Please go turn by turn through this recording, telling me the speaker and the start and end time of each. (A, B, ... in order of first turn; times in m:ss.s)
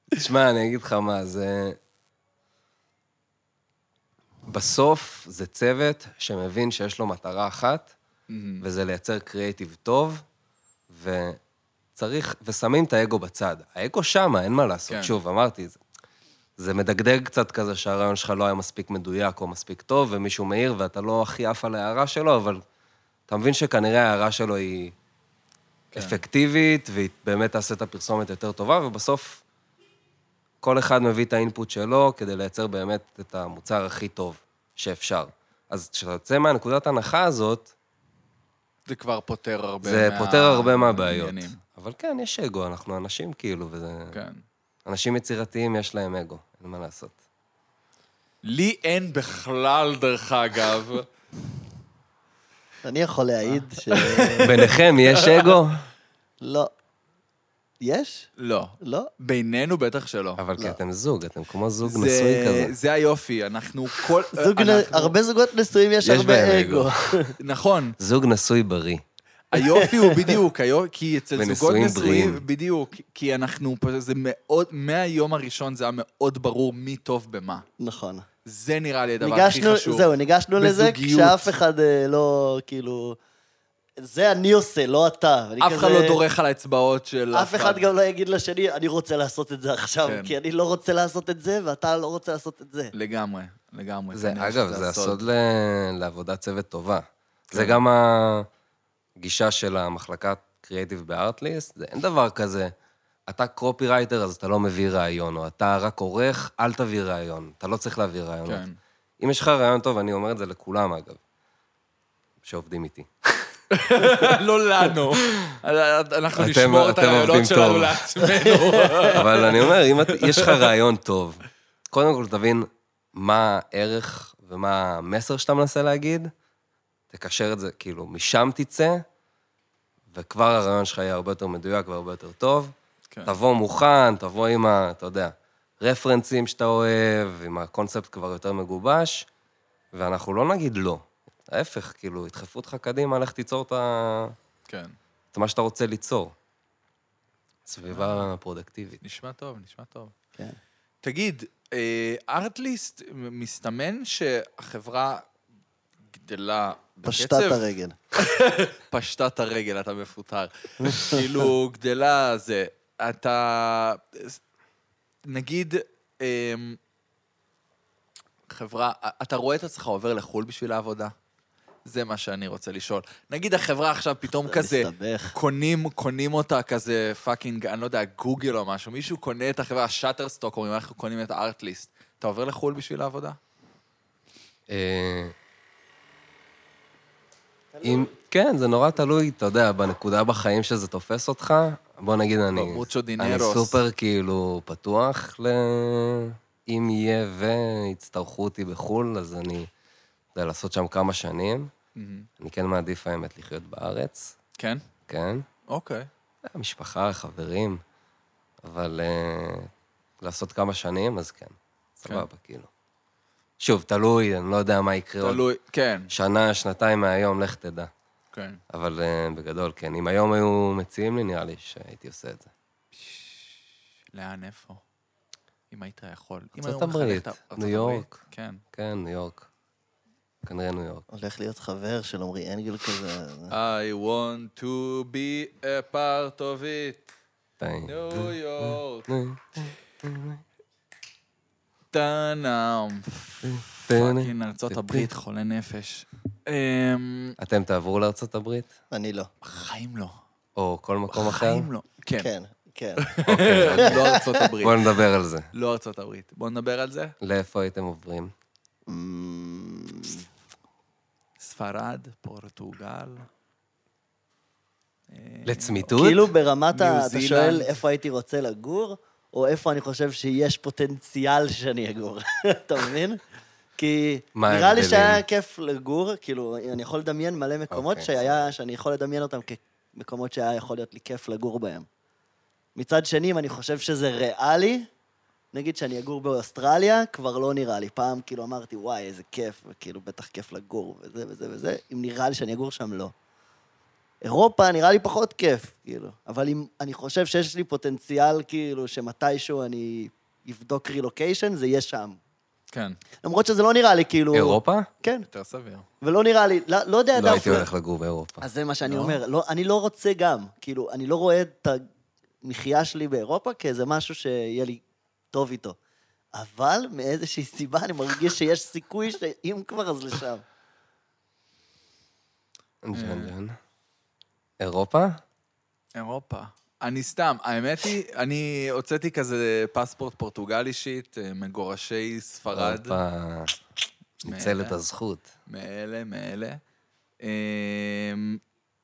0:00.1-0:01.8 A
0:04.5-0:07.9 A
0:08.3-0:08.6 B
0:08.6-0:10.2 A
0:10.9-0:11.4 A
0:12.0-0:15.8 A
0:14.9-0:15.1 B
0:16.6-0:22.6 A
0:23.3-0:25.0 A
0:25.9-0:26.2 B
0:25.9-0:29.4 A
0:30.6-0:37.7 A
0:38.9-0:41.6 B
0:39.8-0:44.2 A
0:44.1-0:44.4 B
0:44.9-0:47.2 A
0:48.4-0:51.1 B
0:52.8-0:54.5 C
0:53.5-0:55.6 B
0:54.4-0:55.9 A
0:56.4-0:56.7 C
0:57.8-0:58.3 C
0:58.4-1:00.4 B
0:58.8-0:59.1 C
1:00.4-1:02.7 A
1:01.8-1:05.1 B
1:04.3-1:07.4 C
1:06.0-1:07.2 A
1:07.4-1:08.0 B
1:08.0-1:09.0 A
1:09.5-1:17.6 B
1:09.5-1:10.4 C
1:11.4-1:12.4 A
1:17.8-1:18.3 C
1:18.4-1:21.5 B
1:19.2-1:23.2 C
1:24.0-1:26.2 C
1:25.6-1:27.9 B
1:27.3-1:32.9 C
1:30.1-1:30.3 B
1:32.9-1:35.2 B
1:34.1-1:38.5 A
1:37.5-1:37.8 B
1:39.2-1:42.7 A
1:43.3-1:48.6 A
1:48.5-1:48.8 B
1:49.2-1:51.2 A
1:52.4-1:53.5 A
1:53.7-2:00.7 B
1:56.4-1:58.3 A
1:59.0-2:06.3 A
2:07.1-2:09.0 A
2:10.1-2:12.7 A
2:13.2-2:19.3 A
2:19.9-2:24.4 A
2:24.7-2:25.0 B
2:25.3-2:26.4 A
2:27.7-2:29.0 A
2:27.9-2:28.3 B
2:29.0-2:30.1 B
2:31.0-2:35.3 B
2:36.1-2:44.4 B
2:37.0-2:38.0 C
2:40.8-2:41.2 C
2:45.3-2:46.8 B
2:48.5-2:51.1 B
2:51.9-3:03.4 B
2:54.3-2:55.4 C
3:04.7-3:05.4 A
3:07.8-3:19.7 A
3:12.5-3:13.8 B
3:20.4-3:21.7 A
3:22.0-3:22.3 B
3:22.4-3:24.4 A
3:24.6-3:24.8 B
3:25.1-3:25.5 A
3:25.7-3:26.1 B
3:26.4-3:27.8 A
3:28.6-3:32.7 A
3:33.6-3:35.4 A
3:35.2-3:36.1 B
3:36.1-3:37.9 A
3:38.3-3:38.6 B
3:38.7-3:42.5 A
3:43.0-3:43.4 B
3:44.1-3:44.8 B
3:45.7-3:48.6 B
3:46.6-3:48.2 A
3:48.7-3:49.5 A
3:50.4-3:51.0 A
3:51.1-3:53.6 C
3:53.5-3:57.1 B
3:57.6-4:00.4 A
3:57.9-3:59.1 B
4:01.9-4:07.4 B
4:03.4-4:05.1 A
4:07.4-4:08.7 A
4:08.9-4:09.3 C
4:09.4-4:10.2 B
4:10.6-4:11.7 A
4:11.1-4:12.3 B
4:12.2-4:13.0 C
4:13.0-4:15.0 B
4:13.3-4:14.0 A
4:13.7-4:14.4 C
4:14.6-4:15.5 A
4:15.5-4:17.1 B
4:17.2-4:18.3 A
4:18.9-4:20.2 C
4:21.4-4:23.3 B
4:25.1-4:26.0 B
4:25.5-4:26.3 A
4:26.0-4:33.2 C
4:26.7-4:27.8 B
4:33.8-4:41.9 C
4:34.4-4:35.2 A
4:37.7-4:38.1 A
4:42.8-4:44.9 C
4:45.5-4:53.1 C
4:54.2-5:02.2 C
5:02.7-5:03.0 B
5:03.2-5:05.3 C
5:04.3-5:04.9 A
5:05.3-5:05.9 B
5:06.0-5:07.7 C
5:07.2-5:08.4 A
5:08.4-5:11.8 C
5:08.9-5:09.2 B
5:12.4-5:15.8 C
5:16.3-5:20.4 C
5:22.8-5:23.6 A
5:22.9-5:23.3 B
5:24.6-5:25.2 A
5:26.0-5:33.0 B
5:32.5-5:33.6 A
5:34.2-5:35.3 A
5:34.2-5:34.8 B
5:35.5-5:36.6 B
5:37.2-5:38.4 B